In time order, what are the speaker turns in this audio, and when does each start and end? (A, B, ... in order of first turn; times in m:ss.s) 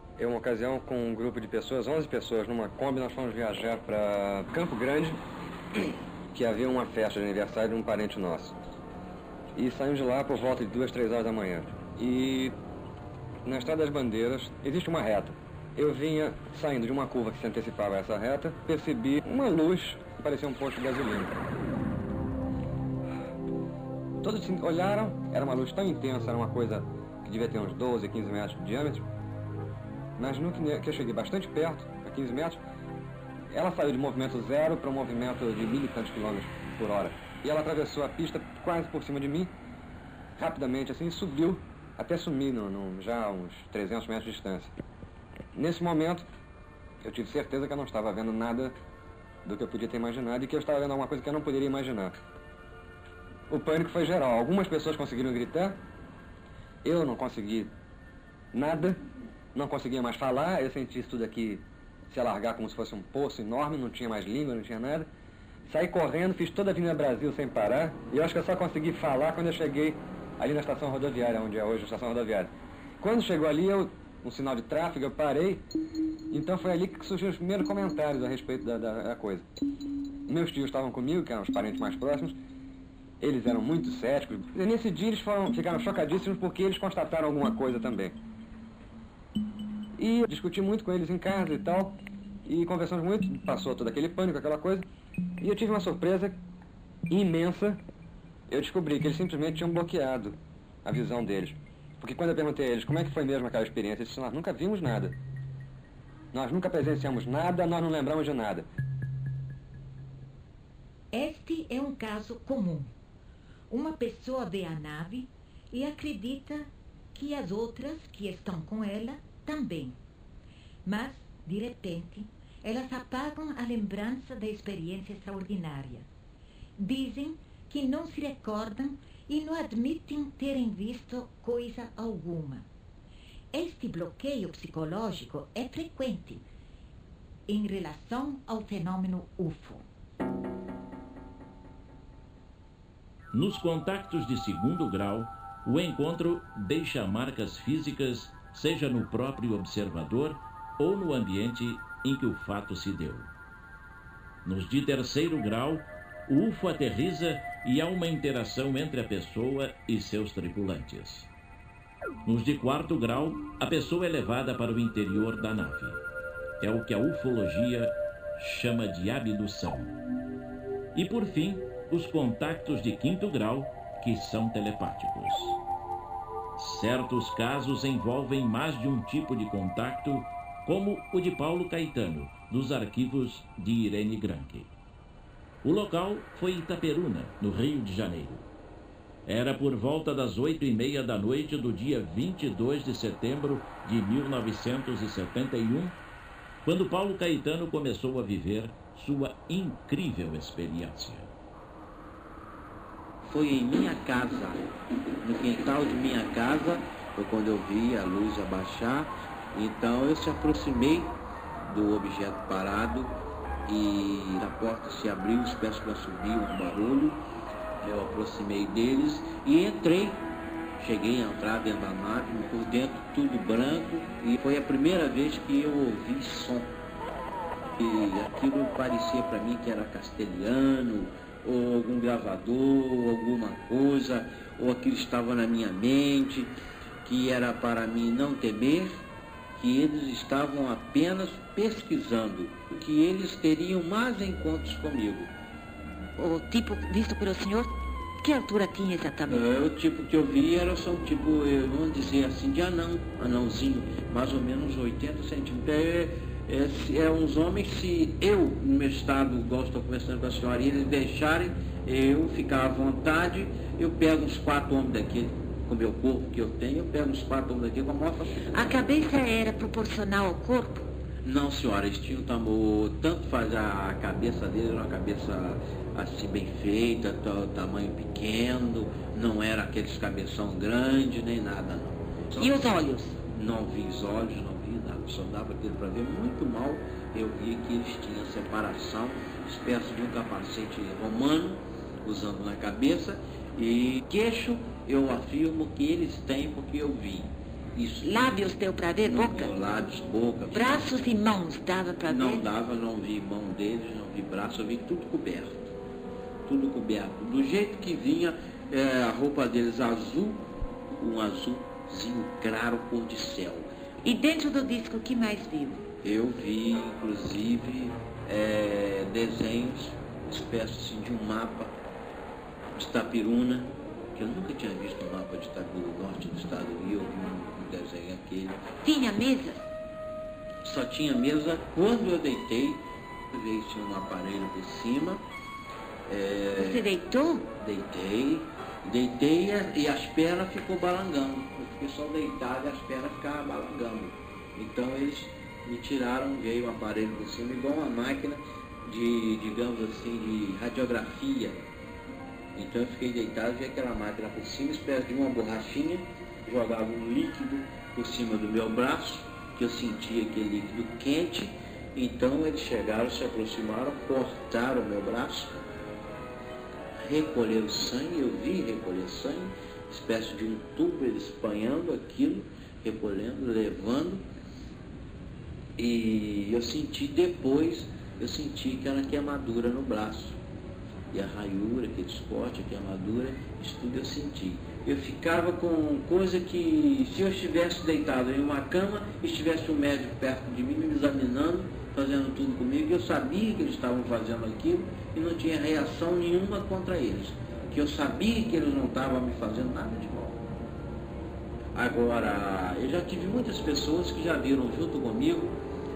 0:00.2-0:05.2 A
0:05.7-0:08.5 A
0:09.5-0:12.6 A
0:13.4-0:21.4 A
0:24.2-0:29.1 A
0:30.2-0:32.6 A
0:33.5-0:39.5 A
0:40.4-0:44.7 A
0:45.5-0:46.2 A
0:47.0-0:48.8 A
0:49.4-0:52.2 A
0:53.5-0:55.8 A
0:56.8-0:57.7 A
0:58.5-0:59.0 A
0:59.5-1:05.1 A
1:05.6-1:15.6 A
1:16.3-1:19.5 A
1:20.3-1:22.3 A
1:23.2-1:28.1 A
1:30.0-1:34.8 A
1:35.4-1:36.4 A
1:37.1-1:37.8 A
1:38.5-1:45.1 A
1:46.3-1:48.6 A
1:51.1-1:52.9 B
1:53.7-2:00.0 B
2:00.8-2:06.1 B
2:06.8-2:12.7 B
2:13.5-2:16.4 B
2:17.5-2:19.8 B
2:23.3-2:33.3 C
2:34.4-2:41.3 C
2:42.2-2:46.0 C
2:46.6-2:49.9 C
2:50.9-2:55.6 C
2:56.6-3:04.7 C
3:05.6-3:08.4 C
3:09.2-3:15.9 C
3:16.6-3:21.3 C
3:23.2-3:24.7 D
3:25.2-3:33.1 D
3:33.7-3:37.2 D
3:37.8-3:40.2 D
3:40.8-3:46.7 D
3:47.8-3:59.0 D
3:59.6-4:05.3 D
4:06.2-4:09.4 B
4:09.3-4:28.5 D
4:28.4-4:30.9 B
4:31.2-4:42.7 D
4:42.4-4:43.2 B
4:43.2-5:01.0 D
4:58.0-4:59.5 B
5:00.5-5:02.5 B
5:02.1-5:05.7 D
5:06.4-5:13.7 D
5:14.0-5:15.8 B
5:16.0-5:21.7 D
5:22.7-5:28.6 D
5:28.8-5:29.6 B
5:30.6-5:35.2 D
5:36.1-5:36.9 D
5:36.6-5:37.5 B
5:37.5-5:51.6 D
5:52.5-6:05.6 D
6:07.0-6:14.2 D
6:15.8-6:20.4 D
6:21.1-6:40.4 D
6:41.7-6:45.5 D